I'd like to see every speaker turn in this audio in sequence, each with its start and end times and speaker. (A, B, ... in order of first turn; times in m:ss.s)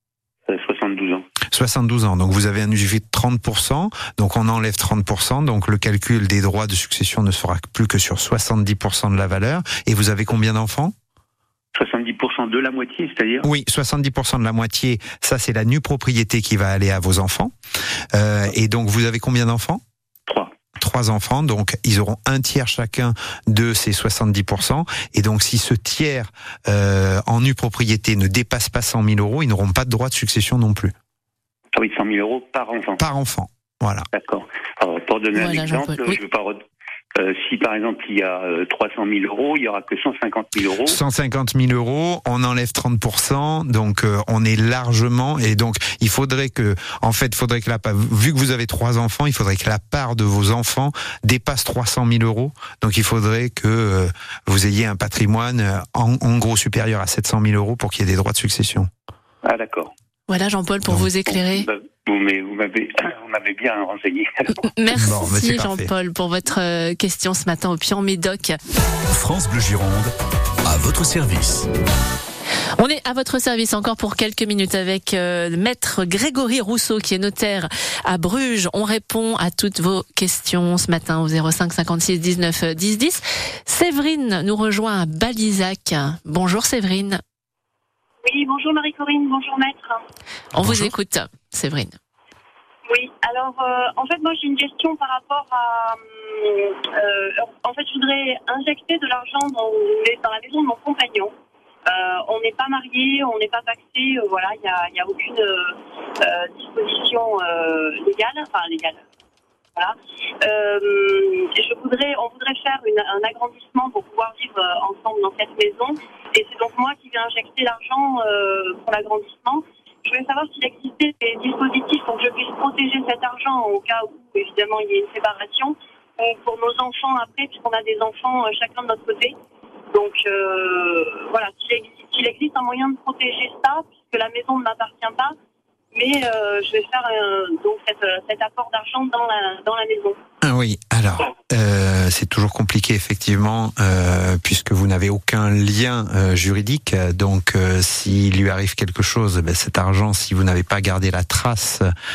0:00.5-0:01.3 A
0:01.5-0:10.9 B
0:11.8-0:13.4 A
0:13.4-0:17.5 B
0:18.1-0:19.8 B
0:20.3-0:20.5 A
0:20.8-0:30.9 B
0:31.7-0:33.0 A
0:33.0-0:34.1 B
0:34.1-0:36.6 A
0:35.4-0:36.2 C
0:37.2-0:41.0 A
0:40.8-0:58.9 B
0:59.4-0:59.9 A
1:00.3-1:01.7 C
1:01.2-1:04.6 A
1:04.6-1:08.6 C
1:05.0-1:05.9 B
1:09.1-1:10.1 D
1:10.6-1:11.7 D
1:12.8-1:27.2 C
1:28.2-1:30.0 E
1:30.6-1:30.9 B
1:30.6-1:32.0 C
1:32.9-1:41.3 E
1:41.9-1:49.0 E
1:49.8-2:09.4 E
2:09.9-2:15.3 E
2:15.9-2:20.2 E
2:20.4-2:31.9 B